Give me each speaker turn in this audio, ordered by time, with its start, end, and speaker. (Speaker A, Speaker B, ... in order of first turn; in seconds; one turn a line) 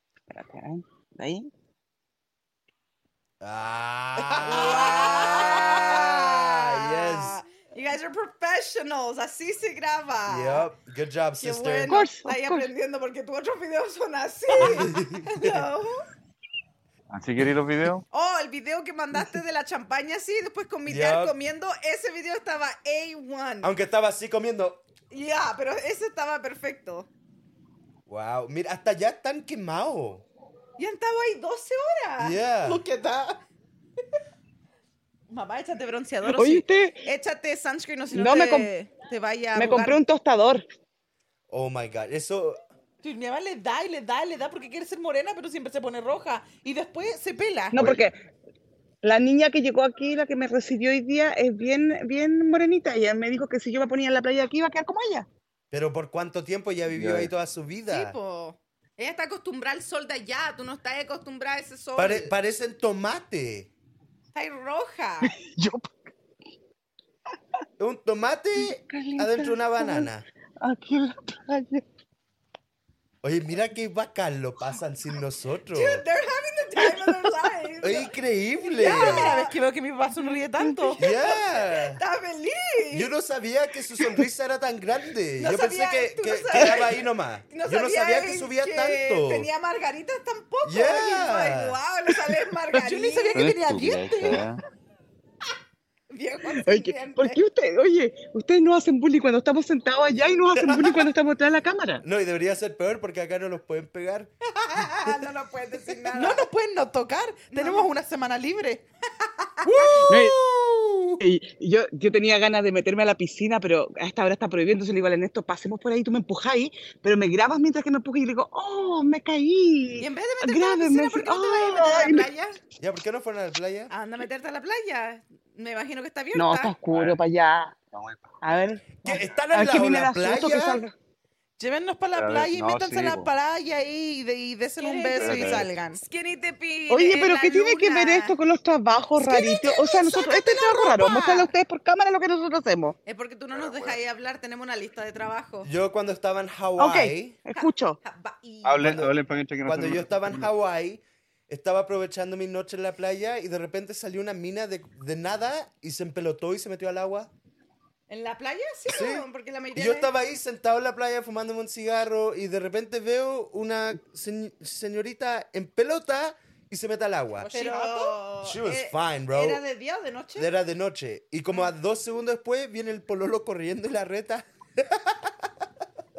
Speaker A: 0.3-1.5
Speaker B: 3.4-7.4
Speaker C: 4.4-10.7
Speaker B: 10.3-11.9
Speaker C: 11.4-16.0
Speaker A: 11.9-12.7
Speaker B: 14.6-15.7
Speaker D: 17.1-18.0
Speaker C: 18.1-23.7
Speaker B: 20.9-21.3
Speaker B: 23.6-24.8
Speaker C: 25.1-27.1
Speaker B: 28.1-30.2
Speaker C: 30.8-33.4
Speaker B: 32.2-32.8
Speaker C: 35.3-40.0
Speaker A: 36.2-37.0
Speaker A: 38.1-38.7
Speaker A: 39.5-40.6
Speaker B: 41.5-42.6
Speaker E: 43.0-47.9
Speaker A: 47.7-48.1
Speaker A: 49.0-55.3
Speaker B: 55.7-58.1
Speaker D: 56.9-57.3
Speaker C: 57.9-62.3
Speaker B: 62.0-63.7
Speaker C: 64.3-65.3
Speaker A: 65.2-65.9
Speaker B: 67.8-70.2
Speaker A: 68.6-70.1
Speaker A: 70.6-71.8
Speaker B: 73.2-76.0
Speaker C: 75.7-79.5
Speaker B: 77.8-79.4
Speaker E: 78.8-81.0
Speaker A: 80.6-81.0
Speaker B: 81.0-82.0
Speaker C: 81.0-83.1
Speaker B: 82.9-89.5
Speaker C: 85.4-87.0
Speaker C: 87.5-93.5
Speaker B: 90.6-91.8
Speaker E: 92.7-94.5
Speaker D: 93.3-94.6
Speaker C: 96.1-97.4
Speaker A: 96.5-102.0
Speaker B: 100.5-101.1
Speaker B: 102.0-104.8
Speaker C: 104.6-106.5
Speaker E: 106.1-108.8
Speaker C: 107.5-107.9
Speaker C: 109.4-110.0
Speaker B: 109.7-111.2
Speaker A: 110.0-110.3
Speaker A: 111.2-122.3
Speaker C: 120.0-122.6
Speaker B: 122.8-123.9
Speaker C: 123.9-126.7
Speaker A: 126.3-127.8
Speaker D: 126.9-127.2
Speaker D: 127.9-128.3
Speaker A: 128.4-130.9
Speaker B: 129.0-130.8
Speaker E: 131.6-136.0
Speaker D: 132.1-133.3
Speaker C: 134.8-138.3
Speaker D: 135.2-135.7
Speaker A: 136.9-142.9
Speaker C: 139.2-141.5
Speaker C: 143.1-145.7
Speaker D: 143.5-144.0
Speaker B: 145.6-147.4
Speaker A: 146.8-148.0
Speaker C: 147.5-148.8
Speaker D: 148.6-150.5
Speaker B: 148.8-157.3
Speaker C: 158.1-160.1
Speaker B: 158.9-167.5
Speaker E: 167.4-168.2
Speaker C: 167.5-170.5
Speaker B: 168.4-169.6
Speaker B: 170.3-175.3